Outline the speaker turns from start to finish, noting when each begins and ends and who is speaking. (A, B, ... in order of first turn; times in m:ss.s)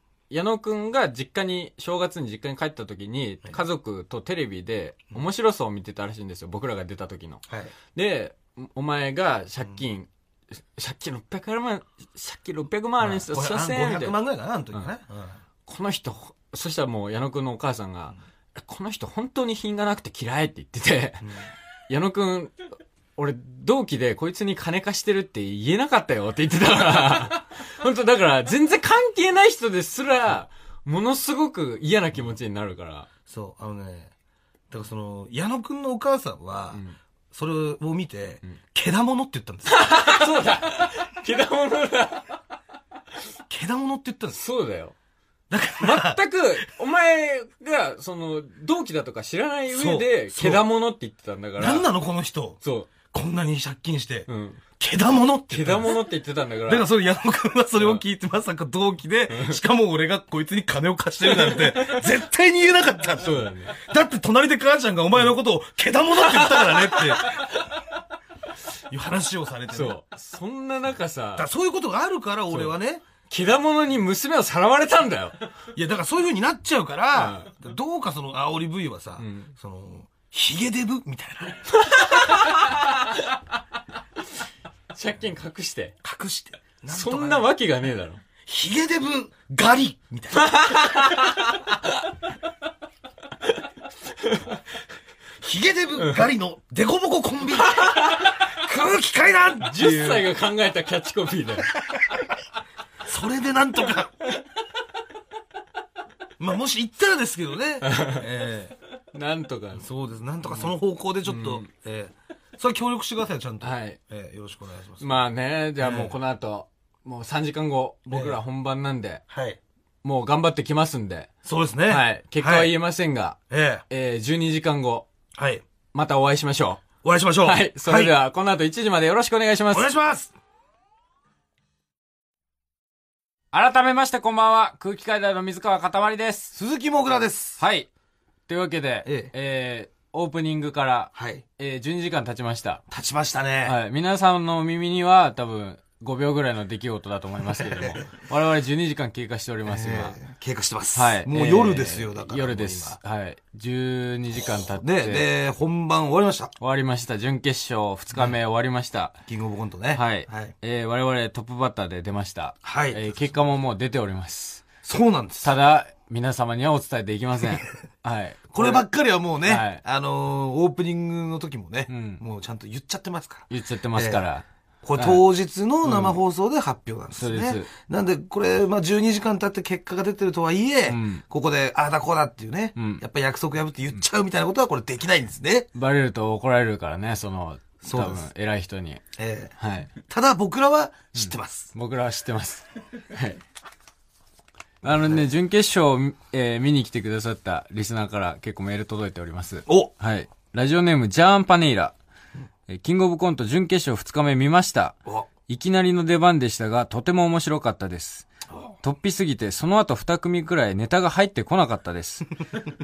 0:00.3-0:07.4 A
0:07.5-0:07.7 B
0:07.9-0:10.1 A
0:10.7-0:14.1 A
0:13.0-0:15.4 B
0:15.6-0:21.4 A
0:21.2-0:21.5 B
0:21.9-0:22.6 A
0:23.2-0:33.1 A
0:33.3-0:34.1 B
0:34.7-0:40.0 B
0:36.7-0:37.0 A
0:39.6-0:42.3 A
0:43.5-0:44.4 B
0:44.3-0:44.9 A
0:45.5-0:46.2 B
0:45.8-0:51.9 A
0:49.7-0:50.6 B
0:51.6-0:52.6 B
0:52.6-0:52.9 A
0:53.1-0:54.3 B
0:54.3-0:54.6 A
0:54.8-0:56.0 B
0:55.5-0:56.9 A
0:56.7-1:07.6 B
0:59.3-0:59.6 A
1:01.2-1:02.1 A
1:03.2-1:03.8 A
1:06.2-1:07.8 A
1:08.8-1:10.0 B
1:09.7-1:11.5 A
1:11.4-1:13.0 B
1:12.5-1:12.7 A
1:13.3-1:15.4 A
1:15.7-1:22.3 B
1:17.1-1:17.5 A
1:19.2-1:19.5 A
1:21.7-1:23.3 A
1:24.9-1:26.0 A
1:26.0-1:27.5 B
1:26.9-1:28.2 A
1:28.4-1:31.2 B
1:30.3-1:32.1 A
1:34.2-1:34.6 A
1:35.4-1:40.3 B
1:36.0-1:36.2 A
1:37.6-1:38.5 A
1:39.6-1:41.7 A
1:41.7-1:42.3 B
1:43.0-1:44.2 B
1:46.4-1:48.7 B
1:47.8-1:48.2 A
1:49.1-1:49.8 A
1:49.8-1:55.2 B
1:51.2-1:51.7 A
1:53.6-1:54.0 A
1:55.0-1:59.2 A
1:55.8-1:56.1 B
1:58.1-1:58.4 B
1:59.3-1:59.6 B
2:00.0-2:01.3 A
2:01.4-2:02.7 B
2:01.9-2:03.4 A
2:03.5-2:03.8 B
2:03.9-2:05.1 A
2:05.4-2:05.6 B
2:05.9-2:06.8 A
2:07.0-2:08.1 B
2:07.4-2:09.9 A
2:09.7-2:10.3 B
2:13.5-2:16.5 A
2:16.5-2:17.6 B
2:17.6-2:17.9 A
2:18.5-2:22.8 A
2:19.0-2:19.3 B
2:21.1-2:21.4 B
2:22.9-2:23.8 B
2:23.6-2:30.2 A
2:27.6-2:28.0 B
2:29.6-2:33.0 B
2:30.9-2:35.2 A
2:34.4-2:36.5 B
2:36.6-2:39.2 A
2:39.3-2:40.5 B
2:39.9-2:44.7 A
2:42.6-2:43.4 B
2:44.8-2:45.5 B
2:45.4-2:48.8 A
2:48.5-2:54.2 B
2:49.4-2:49.8 A
2:51.9-2:52.2 A
2:53.5-2:54.4 A
2:54.8-3:05.7 B
2:55.0-2:55.2 A
2:55.8-2:56.2 A
2:57.2-2:57.7 A
3:00.9-3:01.2 A
3:02.8-3:03.0 A
3:05.7-3:09.0 A
3:07.8-3:08.3 B
3:09.2-3:11.7 B
3:09.6-3:09.9 A
3:11.1-3:13.4 A
3:14.8-3:22.0 A
3:14.8-3:15.2 B
3:22.7-3:28.3 A
3:28.8-3:32.3 A